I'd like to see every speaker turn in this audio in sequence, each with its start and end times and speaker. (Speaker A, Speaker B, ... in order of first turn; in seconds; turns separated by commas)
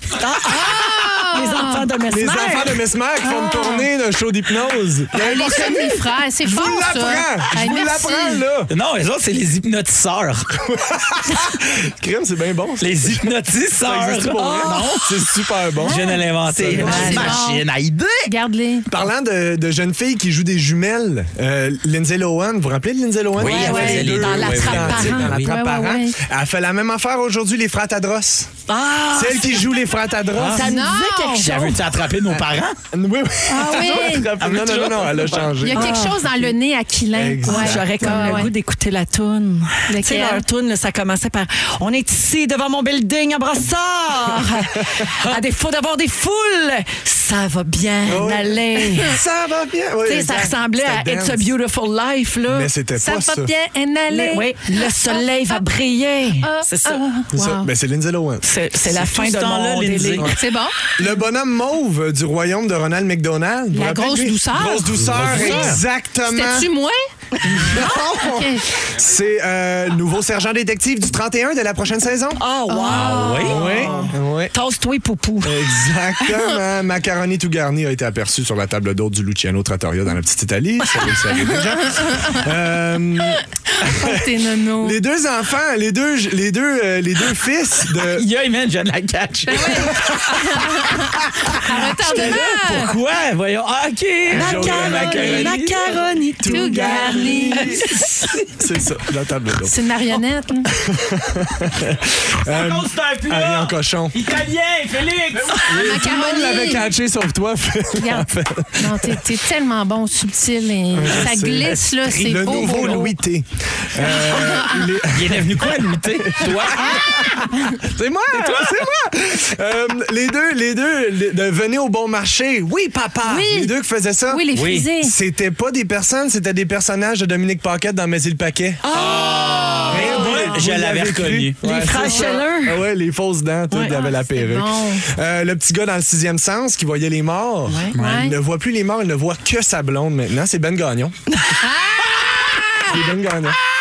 Speaker A: 0.1-2.9, Speaker B: 0.5-1.9, Speaker C: 2.1-8.7, Speaker B: 3.2-3.9, Speaker B: 5.1-8.4, Speaker D: 8.7-10.9, Speaker C: 10.9-17.4, Speaker D: 12.8-15.3, Speaker A: 14.4-14.9, Speaker D: 15.8-18.3, Speaker B: 15.9-16.2, Speaker A: 16.6-17.4, Speaker B: 16.8-17.6, Speaker B: 18.2-18.9, Speaker C: 18.9-28.6, Speaker D: 23.4-25.5, Speaker B: 23.5-24.1, Speaker A: 23.5-25.4, Speaker B: 25.4-26.2, Speaker A: 28.7-29.7, Speaker C: 29.1-30.8, Speaker D: 30.4-30.7, Speaker A: 30.5-31.8, Speaker B: 30.5-31.5, Speaker D: 31.4-32.8, Speaker C: 32.3-36.0, Speaker B: 33.5-34.3, Speaker D: 33.9-35.6, Speaker B: 35.6-38.5, Speaker A: 35.7-36.2, Speaker C: 37.1-38.5, Speaker A: 37.5-49.2, Speaker B: 39.9-40.5, Speaker C: 48.1-51.5, Speaker A: 50.1-52.7, Speaker C: 52.5-53.5, Speaker B: 53.0-55.6, Speaker A: 54.1-57.0, Speaker B: 56.4-57.7, Speaker C: 57.3-58.5, Speaker A: 58.4-60.3, Speaker D: 58.9-60.4, Speaker C: 60.2-60.4, Speaker B: 60.4-61.1, Speaker C: 61.0-66.7, Speaker B: 63.7-65.8, Speaker D: 65.0-65.8, Speaker B: 66.3-68.7, Speaker C: 67.5-72.4, Speaker A: 72.4-75.7, Speaker B: 72.7-74.1, Speaker D: 72.9-73.8, Speaker C: 73.4-74.5, Speaker C: 75.4-88.3, Speaker B: 81.3-82.5, Speaker B: 83.3-85.0, Speaker D: 87.9-90.6, Speaker B: 89.5-92.9, Speaker D: 91.5-95.9, Speaker C: 94.3-95.7, Speaker A: 94.3-98.4, Speaker C: 96.4-99.8, Speaker B: 96.5-98.0, Speaker B: 99.6-100.7, Speaker C: 100.7-104.2, Speaker D: 102.5-105.8, Speaker C: 105.5-109.4, Speaker B: 105.7-106.9, Speaker B: 108.0-113.2, Speaker C: 110.9-129.0, Speaker D: 112.2-113.0, Speaker B: 114.0-114.9, Speaker D: 114.1-114.5, Speaker D: 115.1-117.3, Speaker B: 116.8-117.8, Speaker D: 118.3-118.8, Speaker B: 123.2-123.7, Speaker B: 124.3-125.1, Speaker D: 124.5-124.9, Speaker A: 128.8-130.5, Speaker D: 128.9-131.6, Speaker C: 129.9-141.2, Speaker A: 131.6-132.8, Speaker B: 132.0-132.3, Speaker A: 133.7-134.0, Speaker B: 133.8-135.1, Speaker A: 137.7-137.9, Speaker D: 137.9-138.3, Speaker B: 138.0-138.4, Speaker B: 141.6-143.0, Speaker C: 142.8-143.6